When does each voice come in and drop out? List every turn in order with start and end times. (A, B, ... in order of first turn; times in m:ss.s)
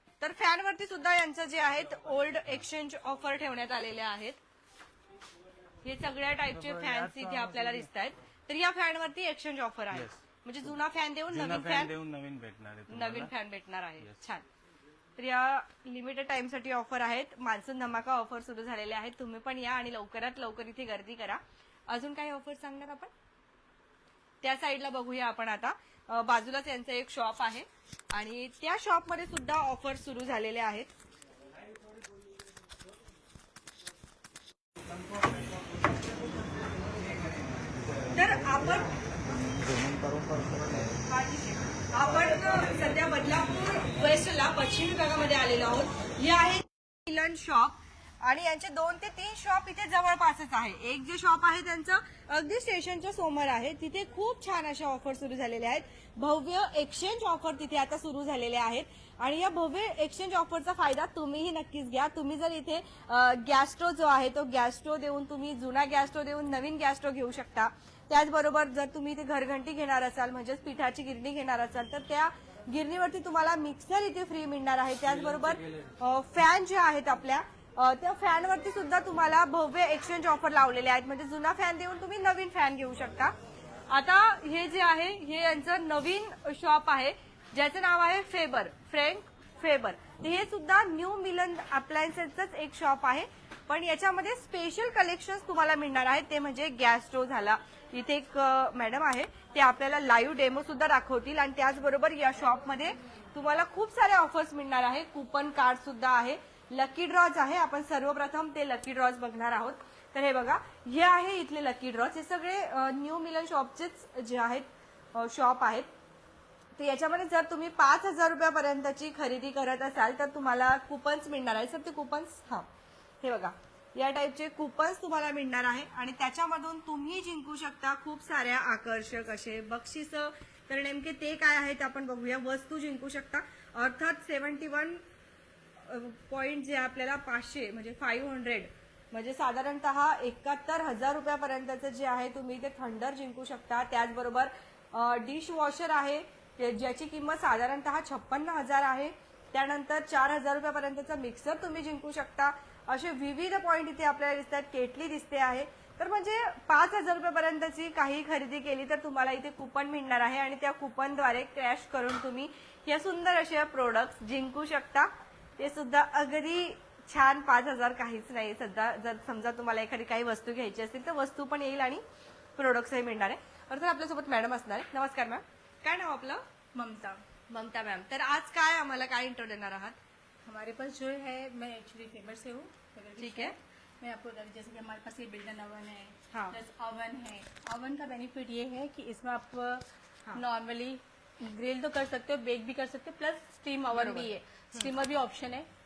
0:00.2-0:04.4 A
0:05.8-0:11.9 A
0:06.5-0:07.9 B
0:09.9-0:10.2 B
0:11.3-0:13.3 B
0:12.9-0:14.4 A
0:15.2-0:23.1 A
0:24.4-0:30.9 A
0:35.1-0:35.9 B
0:36.7-0:38.1 B
0:38.1-0:38.9 A
0:39.9-0:40.7 B
0:41.1-1:23.3 A
1:23.9-1:55.9 A
1:56.8-2:02.7 A
2:03.2-2:15.0 A
2:15.8-2:52.0 A
2:52.6-2:56.4 A
2:56.7-2:57.2 C
2:57.5-3:00.0 A
3:00.4-3:09.8 C
3:03.2-3:03.5 A
3:06.3-3:06.6 A
3:10.3-3:15.7 C
3:13.9-3:14.9 A